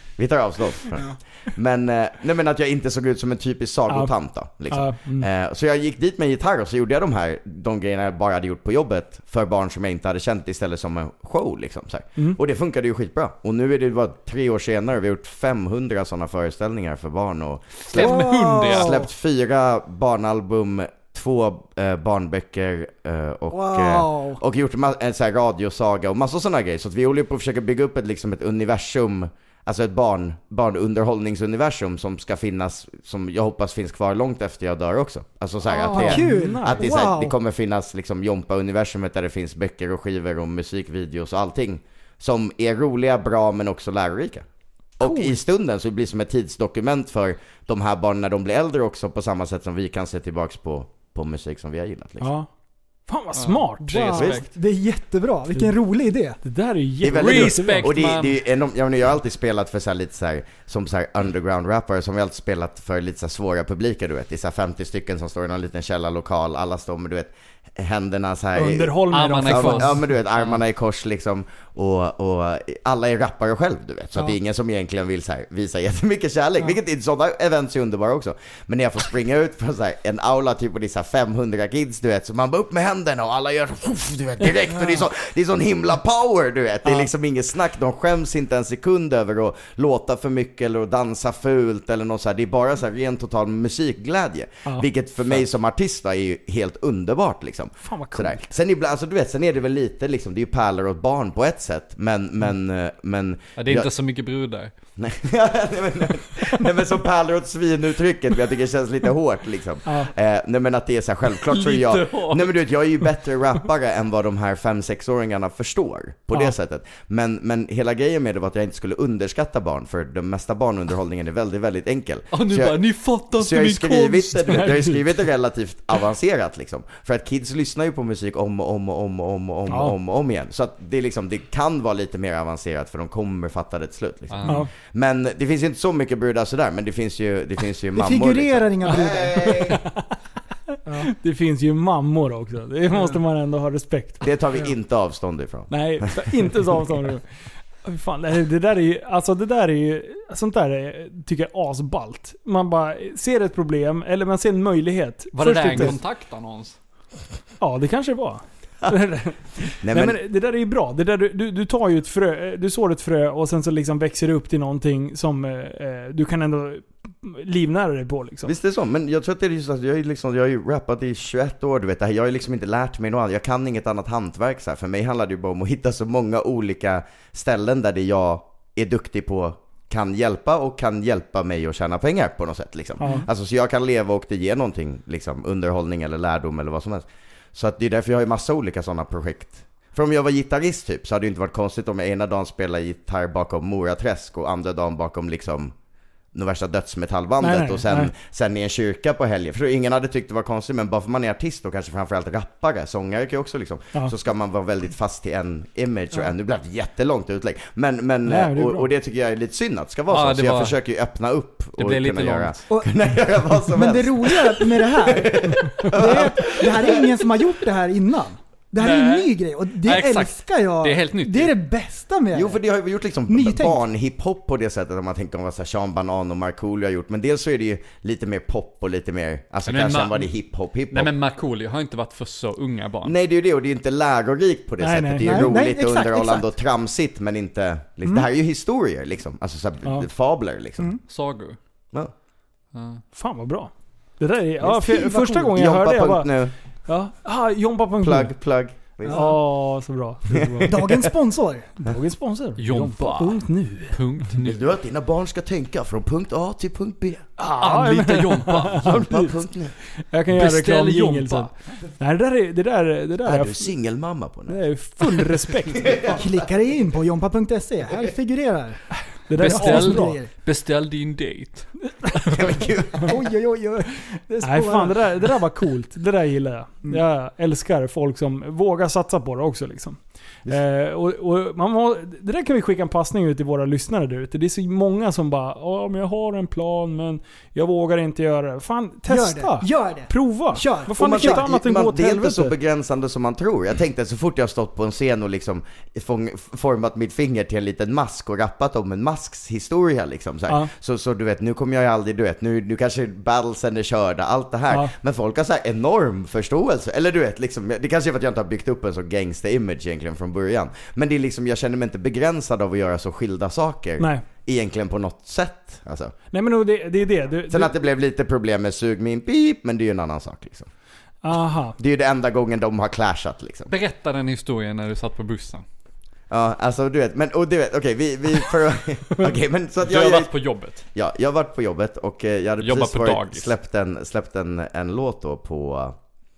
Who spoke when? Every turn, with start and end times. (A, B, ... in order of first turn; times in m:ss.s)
0:00.2-0:44.4 A
0:04.7-0:05.3 B
0:17.8-0:19.0 C
0:17.9-0:19.0 D
0:23.5-0:24.4 D
0:35.7-0:37.3 D
0:35.8-0:36.9 B
0:45.0-0:52.3 A
0:45.0-0:45.4 D
0:52.2-0:52.5 B
0:53.1-0:54.2 B
0:53.3-0:54.5 C
0:53.9-0:56.4 D
0:56.4-0:57.9 B
0:57.0-1:43.9 A
0:57.1-0:58.4 C
1:08.5-1:10.0 B
1:09.1-1:10.6 C
1:37.8-1:38.5 B
1:43.6-1:44.7 C
1:45.0-2:02.8 A
1:51.5-1:52.6 C
2:02.3-2:04.7 C
2:03.3-2:19.8 A
2:04.4-2:05.0 B
2:09.7-2:09.9 B
2:14.3-2:14.6 C
2:17.9-2:19.8 D
2:21.0-2:24.2 B
2:24.2-2:26.6 A
2:25.7-2:27.2 B
2:27.8-2:36.0 B
2:35.4-2:36.8 C
2:37.6-2:48.5 B
2:39.8-2:40.2 A
2:48.4-3:15.7 A
3:03.0-3:03.2 B
3:16.3-3:37.1 A
3:17.4-3:18.1 B
3:28.3-3:28.9 B
3:30.1-3:30.8 C
3:31.8-3:32.6 C
3:32.7-3:32.9 D
3:33.6-3:42.6 D
3:38.8-3:41.6 C
3:42.3-3:51.1 A
3:43.3-3:43.8 D
3:49.6-3:50.3 C
3:50.9-3:53.1 C
3:53.0-4:01.0 A
3:54.8-3:55.5 B
3:55.2-3:56.5 D
4:01.1-4:01.6 C
4:02.7-4:03.0 C
4:03.1-4:06.3 B
4:04.7-4:05.3 D
4:04.8-4:06.5 A
4:06.9-4:08.3 B
4:08.0-4:09.3 A
4:09.1-4:09.4 D
4:09.1-4:10.7 B
4:10.3-4:10.8 A
4:10.7-4:11.7 D
4:11.8-4:14.0 B
4:12.6-4:14.7 C
4:14.4-4:17.3 A
4:17.4-4:19.4 B
4:17.6-4:19.0 C
4:18.7-4:19.7 A
4:20.1-4:23.7 B
4:20.3-4:21.5 C
4:23.2-4:26.2 A
4:24.5-4:26.1 B
4:26.0-4:28.8 D
4:29.3-4:30.2 B
4:29.4-4:30.3 D
4:29.4-4:31.7 C
4:32.2-4:33.2 A
4:33.1-4:35.0 D
4:34.4-4:52.5 B
4:49.1-4:51.5 D
4:50.9-5:16.1 A
5:16.3-5:17.7 B
5:17.5-5:20.7 A
5:21.2-5:21.8 B
5:21.8-5:23.7 A
5:23.7-5:25.6 C
5:26.3-5:30.3 A
5:29.8-5:30.8 C
5:30.9-5:36.0 A
5:32.6-5:33.5 C